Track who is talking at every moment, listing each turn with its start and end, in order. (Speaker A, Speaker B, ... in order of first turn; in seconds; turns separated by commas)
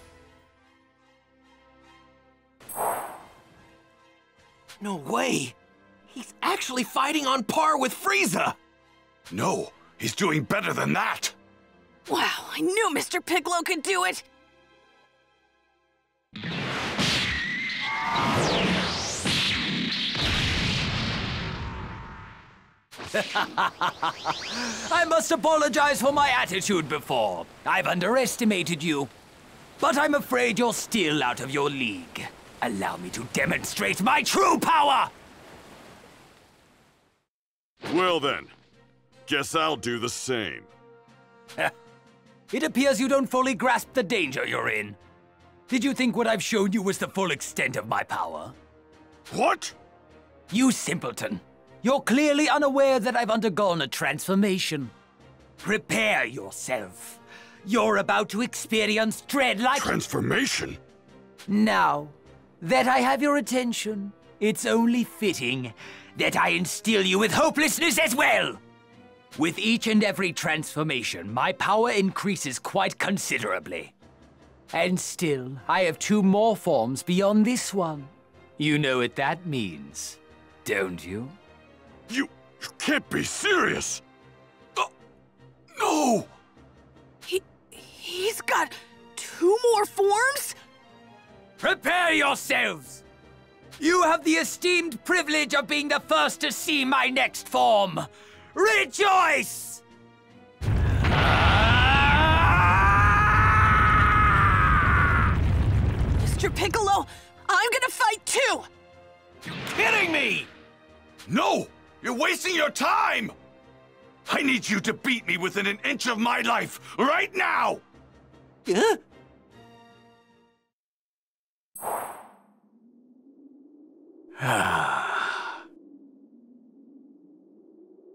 Speaker A: 4.8-5.6, Speaker A: 6.1-8.6, Speaker B: 9.3-11.4, Speaker C: 12.1-14.3, Speaker D: 23.1-29.1, Speaker D: 29.8-35.1, Speaker E: 37.9-38.6, Speaker E: 39.3-40.7, Speaker D: 42.5-45.0, Speaker D: 45.7-48.5, Speaker E: 49.3-49.8, Speaker D: 50.5-54.9, Speaker D: 55.6-60.0, Speaker E: 59.7-60.8, Speaker D: 61.5-68.6, Speaker D: 69.3-73.9, Speaker D: 74.7-81.4, Speaker E: 82.1-84.0, Speaker B: 85.8-86.3, Speaker C: 87.3-90.5, Speaker D: 91.6-93.0, Speaker D: 93.8-99.8, Speaker D: 101.0-103.3, Speaker C: 106.2-108.7, Speaker A: 109.5-110.5, Speaker B: 111.3-113.3, Speaker B: 114.3-117.8, Speaker A: 118.7-119.0, Speaker D: 124.4-125.5